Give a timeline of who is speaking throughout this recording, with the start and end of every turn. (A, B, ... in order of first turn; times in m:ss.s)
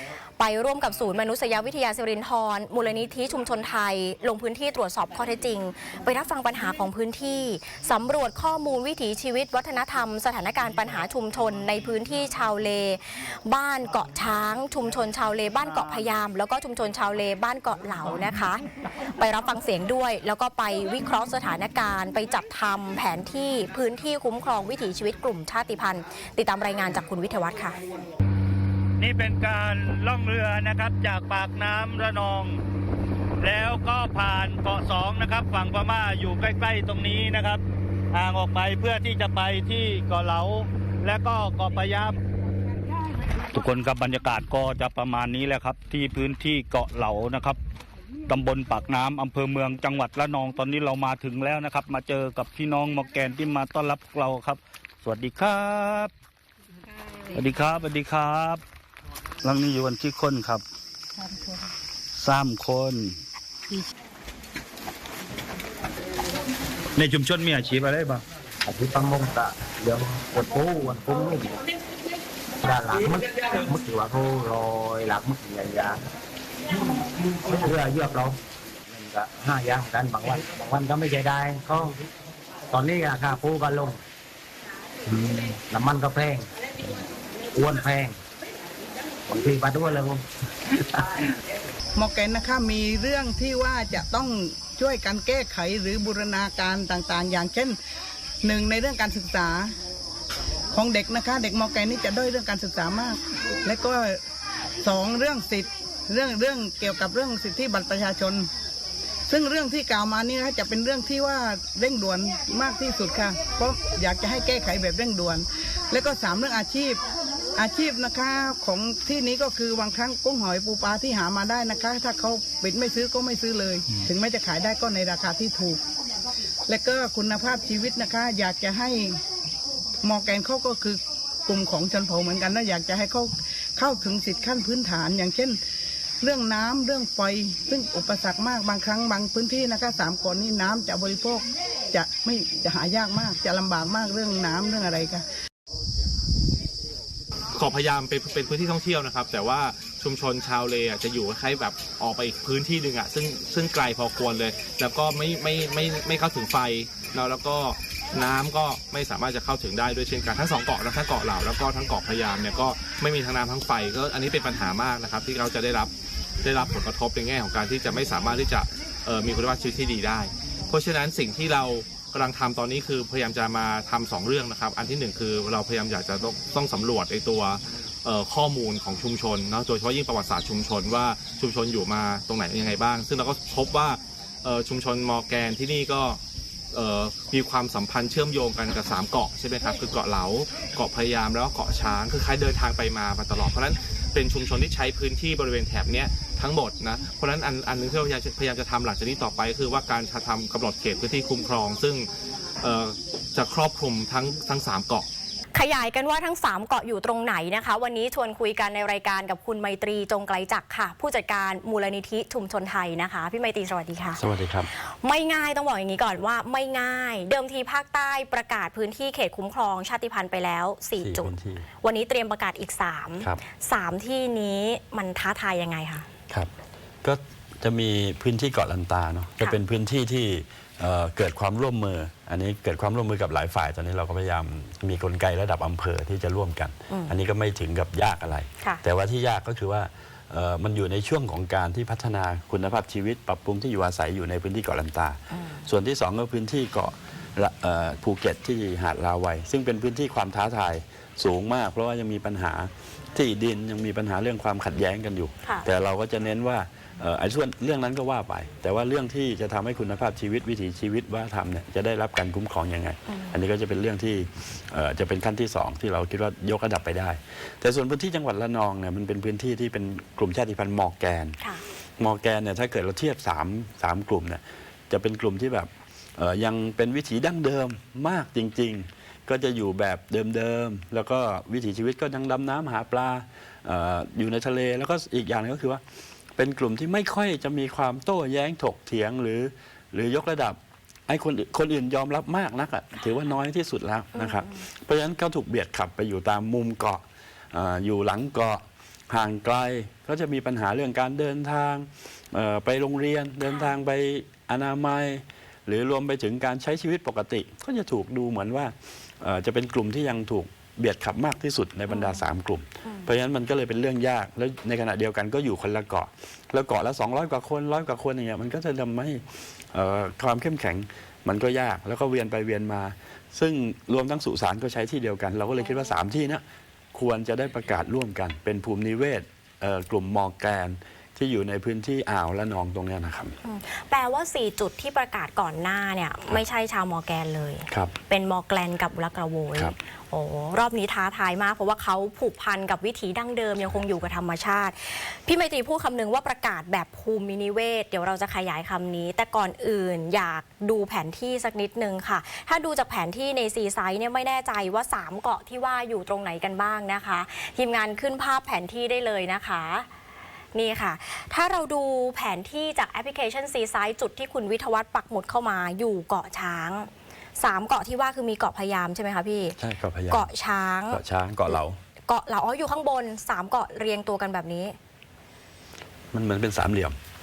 0:00.4-0:18.6 A
0:19.2-0:27.8 A
0:29.0-0:32.6 B
0:33.4-0:37.6 B
0:38.1-0:42.2 B
0:43.5-0:47.6 B
0:48.3-0:56.1 B
0:57.3-0:58.6 B
0:59.4-1:00.6 B
1:02.1-1:03.2 B
1:07.0-1:08.2 B
1:08.7-1:11.6 C
1:12.6-1:16.0 C
1:17.4-1:18.4 C
1:19.0-1:22.0 C
1:22.7-1:24.0 C
1:25.1-1:26.5 C
1:27.5-1:28.2 C
1:29.3-1:30.2 C
1:32.0-1:37.8 D
1:38.4-1:39.7 D
1:40.7-1:44.2 D
1:44.8-1:48.5 D
1:49.3-1:57.0 D
1:57.6-2:05.8 D
2:06.7-2:09.2 D
2:10.0-2:15.6 D
2:16.2-2:25.2 D
2:27.5-2:45.9 E
2:46.4-3:06.2 E
3:06.7-3:22.1 E
3:22.6-3:25.1 E
3:25.6-3:34.2 A
3:34.2-3:34.7 F
3:34.7-3:46.1 A
3:41.0-3:41.6 F
3:47.0-4:31.4 F
3:56.9-3:57.2 A
4:05.3-4:05.6 A
4:23.1-4:23.4 A
4:32.0-4:45.8 F
4:46.4-5:26.4 F
4:54.1-4:54.7 A
5:03.4-5:03.8 A
5:11.9-5:12.2 A
5:12.8-5:13.1 A
5:25.6-5:26.0 A
5:26.9-5:33.4 F
5:33.4-5:59.9 A
5:37.7-5:37.9 F
5:43.6-5:44.1 F
6:00.6-6:09.6 A
6:09.6-6:10.3 F
6:10.1-6:14.8 A
6:10.9-6:11.8 F
6:16.1-6:17.0 F